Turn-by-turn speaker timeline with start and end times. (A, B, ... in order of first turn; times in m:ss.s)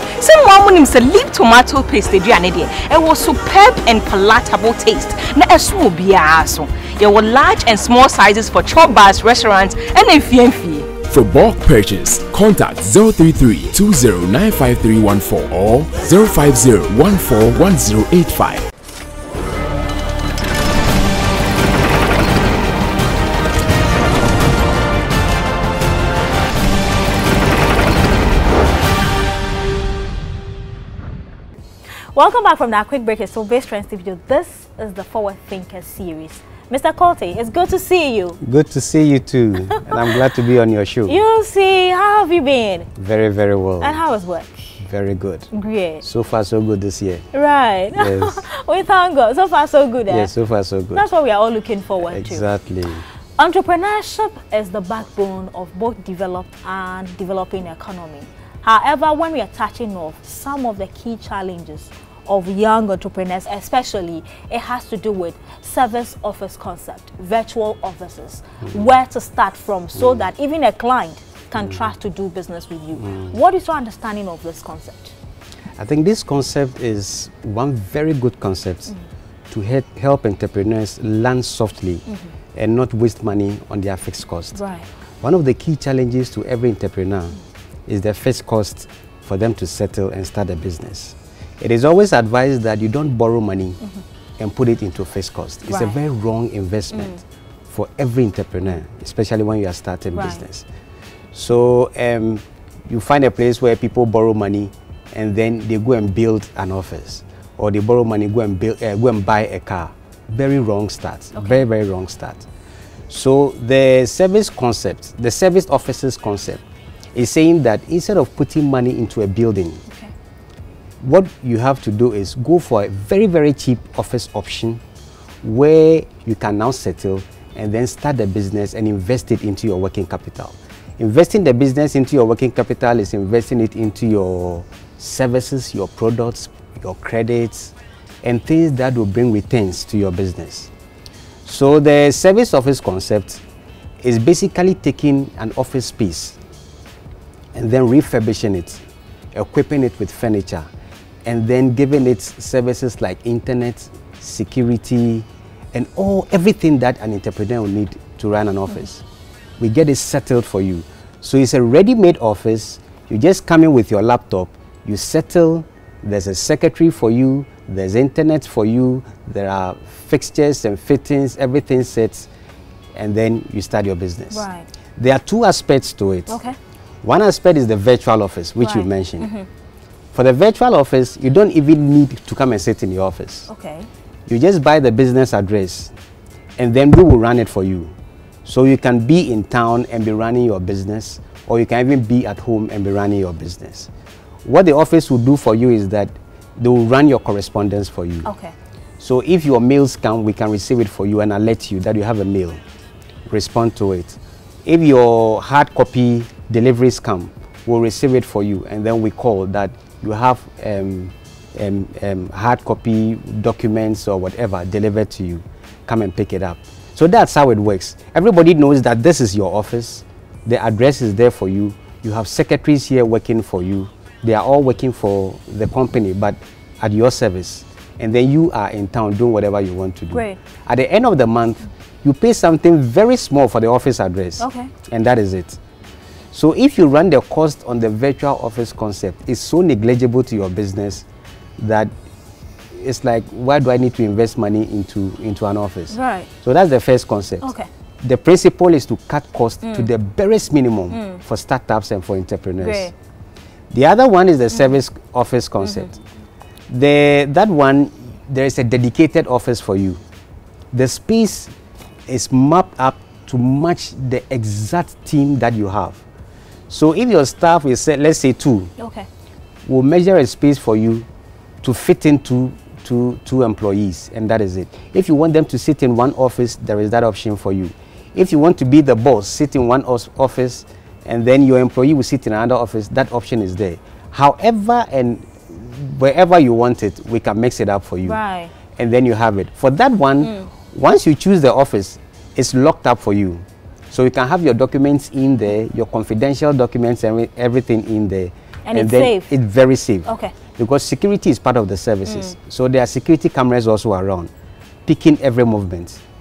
0:00.2-0:10.9 A
0:11.1-0:18.7 B
0:32.1-0:38.4 C
0:38.4-0:41.2 D
0:39.6-0:40.2 C
0:41.0-0:42.9 C
0:43.0-0:44.0 D
0:43.8-0:44.8 C
0:44.8-0:45.5 D
0:45.5-0:46.0 C
0:46.0-0:47.2 D
0:47.3-0:50.3 C
0:47.9-0:48.4 D
0:50.1-0:51.1 D
0:50.9-0:52.4 C
0:52.0-0:53.0 D
0:53.4-1:15.1 C
1:10.0-1:10.2 D
1:11.6-1:11.8 D
1:15.8-1:18.9 D
1:19.5-1:24.6 D
1:24.5-1:24.9 C
1:25.2-1:33.8 D
1:34.4-1:40.6 D
1:35.7-1:36.0 C
1:36.9-1:37.2 C
1:40.1-1:40.4 C
1:41.3-1:52.4 D
1:51.3-1:51.6 C
1:53.1-1:56.6 D
1:57.1-1:59.8 D
1:59.9-2:00.1 C
2:01.0-2:04.8 D
2:05.4-2:20.7 D
2:21.4-2:23.4 D
2:24.0-2:26.4 D
2:27.5-2:30.7 D
2:31.2-2:39.0 D
2:39.6-2:52.3 D
2:52.9-2:54.4 D
2:54.3-2:54.7 C
2:55.0-2:56.4 D
2:56.3-2:56.6 C
2:57.0-2:59.3 D
2:58.6-2:59.4 C
3:00.1-3:03.5 D
3:03.5-3:03.9 C
3:04.3-3:05.9 D
3:06.6-3:07.9 D
3:08.4-3:13.9 D
3:14.4-3:18.3 D
3:18.2-3:18.5 C
3:19.0-3:22.6 D
3:23.3-3:55.6 D
3:50.1-3:50.4 C
3:54.4-3:54.7 C
3:56.3-4:01.0 D
4:01.6-4:01.9 D
4:02.7-4:12.9 D
4:05.9-4:06.3 C
4:07.4-4:07.7 C
4:09.6-4:09.9 C
4:10.9-4:11.2 C
4:12.6-4:12.9 C
4:13.7-4:16.0 D
4:15.6-4:15.9 C
4:16.7-4:20.0 D
4:20.7-4:21.5 D
4:22.1-4:26.0 D
4:26.7-4:28.7 D
4:28.8-4:29.1 C
4:29.6-4:31.1 D
4:31.6-4:48.2 D
4:48.0-4:48.5 C
4:48.7-5:04.3 D
4:50.2-4:50.5 C
4:58.6-4:59.3 C
5:00.0-5:00.3 C
5:02.0-5:02.3 C
5:04.8-5:06.0 D